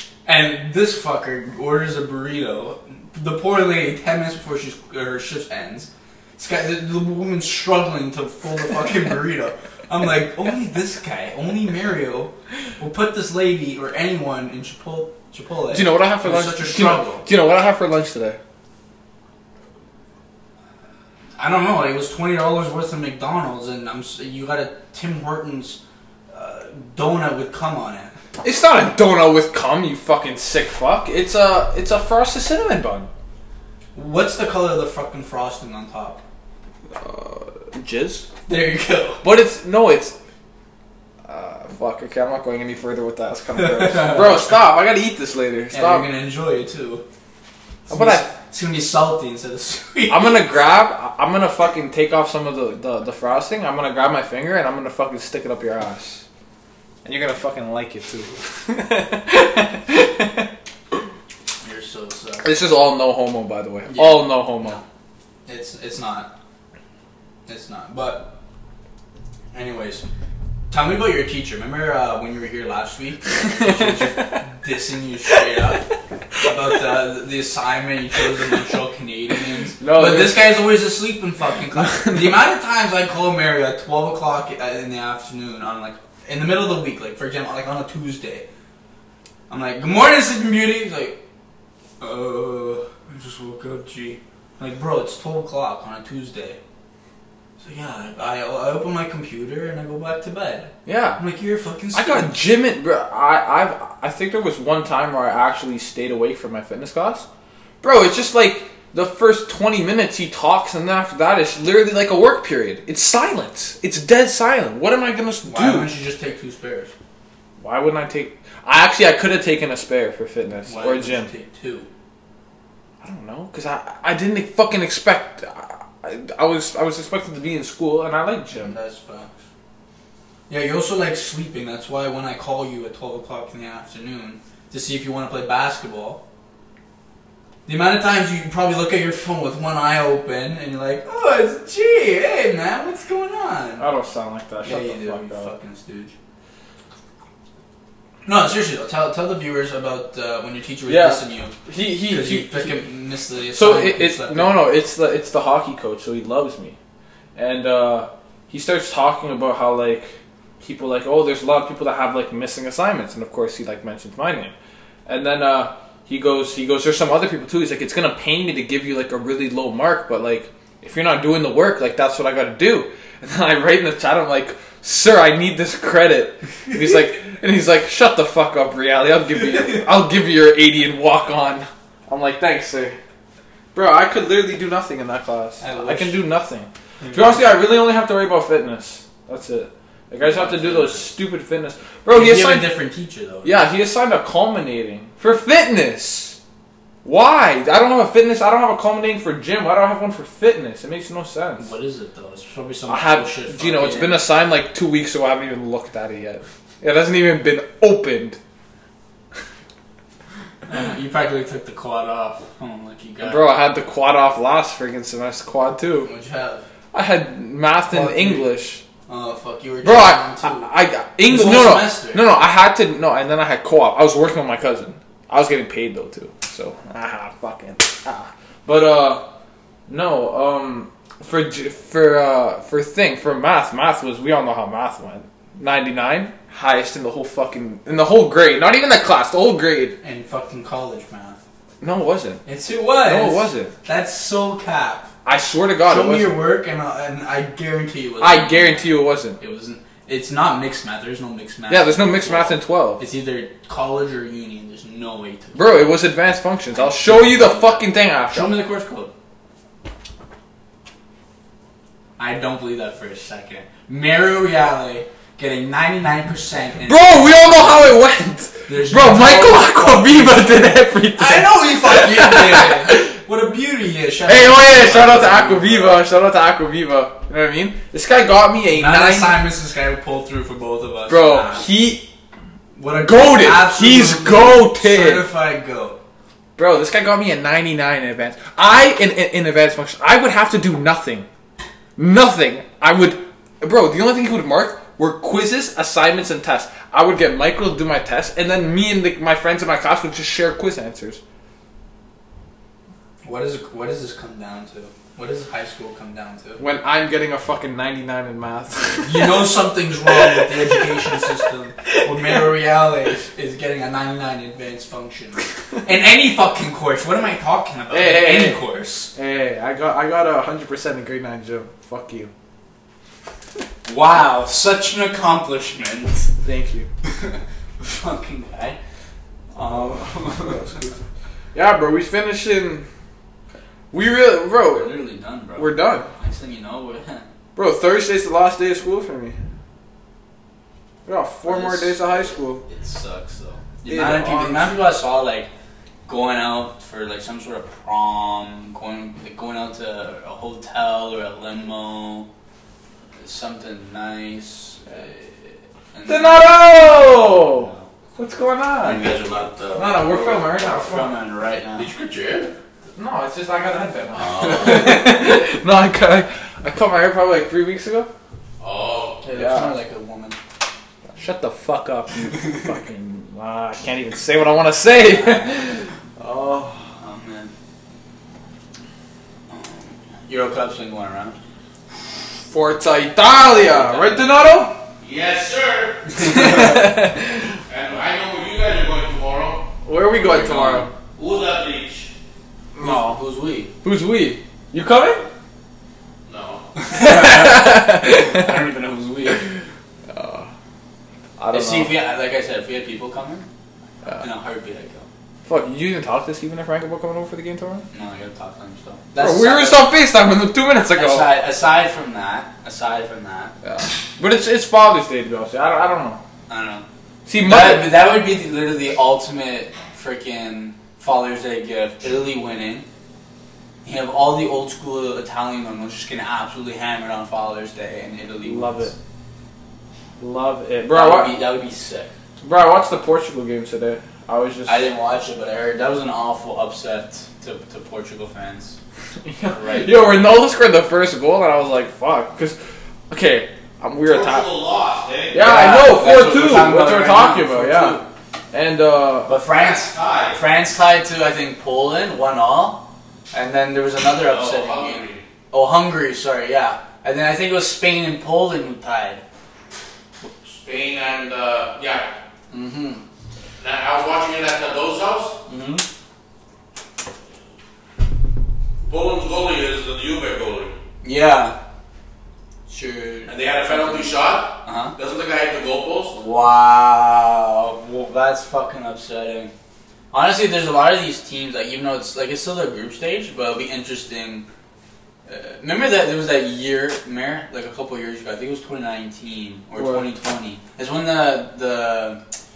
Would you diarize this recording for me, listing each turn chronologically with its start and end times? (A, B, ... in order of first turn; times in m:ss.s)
0:00.2-0:17.2 A
0:15.7-0:18.4 B
0:21.4-0:25.8 A
0:26.3-0:28.1 A
0:28.4-0:33.1 B
0:33.9-0:36.2 A
0:36.9-0:38.3 B
0:38.5-0:39.2 A
0:39.2-0:40.2 B
0:41.2-0:46.1 B
0:43.6-0:44.5 A
0:45.7-0:47.0 A
0:47.9-0:48.3 B
0:47.9-0:50.6 A
0:50.1-0:56.2 B
0:57.0-1:01.0 B
1:01.6-1:02.5 A
1:02.4-1:04.8 B
1:03.9-1:04.8 A
1:05.4-1:06.3 A
1:07.5-1:08.3 A
1:09.5-1:10.0 A
1:10.7-1:15.9 A
1:13.4-1:14.3 B
1:16.4-1:28.4 A
1:19.8-1:20.5 B
1:21.8-1:22.4 B
1:29.5-1:31.2 A
1:32.0-1:36.6 A
1:37.6-1:42.4 A
1:40.8-1:41.2 B
1:41.9-1:47.3 B
1:47.8-1:55.9 B
1:55.4-1:56.9 A
1:57.6-2:01.3 B
2:00.6-2:01.9 A
2:03.0-2:08.7 B
2:08.6-2:09.3 A
2:10.5-2:16.2 A
2:17.6-2:23.9 A
2:23.8-2:25.5 B
2:24.6-2:26.1 A
2:28.2-2:31.6 A
2:30.9-2:32.9 B
2:32.1-2:34.6 A
2:33.5-2:36.8 B
2:37.4-2:44.5 B
2:45.0-3:03.0 B
3:03.7-3:12.7 B
3:05.6-3:06.3 A
3:07.0-3:07.5 A
3:10.2-3:11.0 A
3:12.1-3:13.6 A
3:13.4-3:16.4 B
3:17.0-3:21.7 B
3:21.6-3:24.2 A
3:22.9-3:28.4 B
3:30.6-3:33.5 A
3:33.2-3:36.1 B
3:36.0-3:36.6 A
3:36.9-3:38.8 B
3:37.9-3:38.5 A
3:39.1-3:40.7 A
3:39.8-3:49.3 B
3:41.2-3:42.2 A
3:49.9-4:00.0 B
4:00.0-4:01.4 A
4:01.8-4:02.4 B
4:02.4-4:05.1 A
4:03.0-4:03.7 B
4:05.2-4:06.4 B
4:05.8-4:16.0 A
4:08.2-4:09.4 B
4:11.7-4:13.0 B
4:15.5-4:18.6 B
4:16.7-4:19.1 A
4:22.2-4:27.8 A
4:26.9-4:33.2 B
4:28.7-4:36.0 A
4:34.3-4:39.4 B
4:38.7-4:41.7 A
4:41.1-4:42.1 B
4:42.7-4:46.0 A
4:42.9-4:45.2 B
4:46.6-4:51.3 B
4:52.0-5:01.2 B
5:03.2-5:06.6 A
5:06.6-5:09.5 B
5:09.0-5:19.1 A
5:10.1-5:12.5 B
5:17.9-5:22.3 B
5:23.8-5:26.3 A
5:26.4-5:26.9 B
5:27.1-5:28.8 A
5:29.5-5:30.9 A
5:29.6-5:31.0 B
5:31.5-5:32.9 B
5:33.9-5:34.9 B
5:34.7-5:37.2 A
5:35.6-5:36.1 B
5:37.6-5:39.4 B
5:41.0-5:42.6 B
5:41.4-5:45.5 A
5:43.9-5:44.8 B
5:46.0-5:52.3 A
5:53.2-5:57.9 A
5:56.0-5:59.0 B
5:58.8-6:00.4 C
5:59.7-6:01.1 B
6:00.5-6:01.9 A
6:01.8-6:02.5 C
6:02.9-6:08.1 B
6:04.1-6:05.1 C
6:08.6-6:09.2 C
6:09.2-6:10.4 A
6:09.3-6:09.7 B
6:11.1-6:16.9 B
6:12.4-6:12.6 A
6:15.0-6:15.6 A
6:17.0-6:17.5 A
6:19.5-6:21.4 A
6:22.5-6:24.8 B
6:23.4-6:24.3 A
6:25.0-6:26.8 C
6:26.1-6:26.9 A
6:26.2-6:27.5 B
6:27.6-6:29.7 C
6:29.8-6:30.9 B
6:30.1-6:30.9 A
6:31.1-6:32.1 C
6:32.7-6:33.2 B
6:32.8-6:33.7 A
6:33.8-6:35.2 B
6:36.2-6:36.6 C
6:36.8-6:39.5 A
6:36.9-6:38.6 B
6:40.1-6:40.5 B
6:41.4-6:42.0 B
6:41.5-6:43.5 A
6:44.1-6:45.1 A
6:45.4-6:47.8 B
6:47.9-6:49.9 A
6:49.2-6:51.3 B
6:50.9-6:53.5 A
6:53.6-6:56.2 B
6:56.5-6:56.8 A
6:57.2-6:57.9 B
6:57.4-7:02.9 A
7:03.8-7:08.9 A
7:08.4-7:08.9 B
7:10.2-7:11.4 B
7:10.9-7:12.1 A
7:12.4-7:14.9 B
7:14.6-7:18.8 A
7:19.2-7:22.6 B
7:19.5-7:20.3 A
7:23.1-7:24.5 B
7:24.0-7:25.5 C
7:25.3-7:28.0 B
7:25.3-7:28.1 A
7:28.5-7:29.3 B
7:29.3-7:39.2 A
7:29.5-7:30.4 C
7:34.2-7:35.2 C
7:40.4-7:42.1 C
7:42.5-7:43.0 A
7:43.6-7:45.4 C
7:45.5-7:45.8 A
7:48.9-7:50.8 C
7:51.0-7:51.6 A
7:52.7-7:54.1 A
7:53.3-7:56.2 C
7:54.6-7:54.9 A
7:56.1-7:59.5 A
8:00.1-8:04.4 A
8:05.2-8:12.2 A
8:09.8-8:10.0 B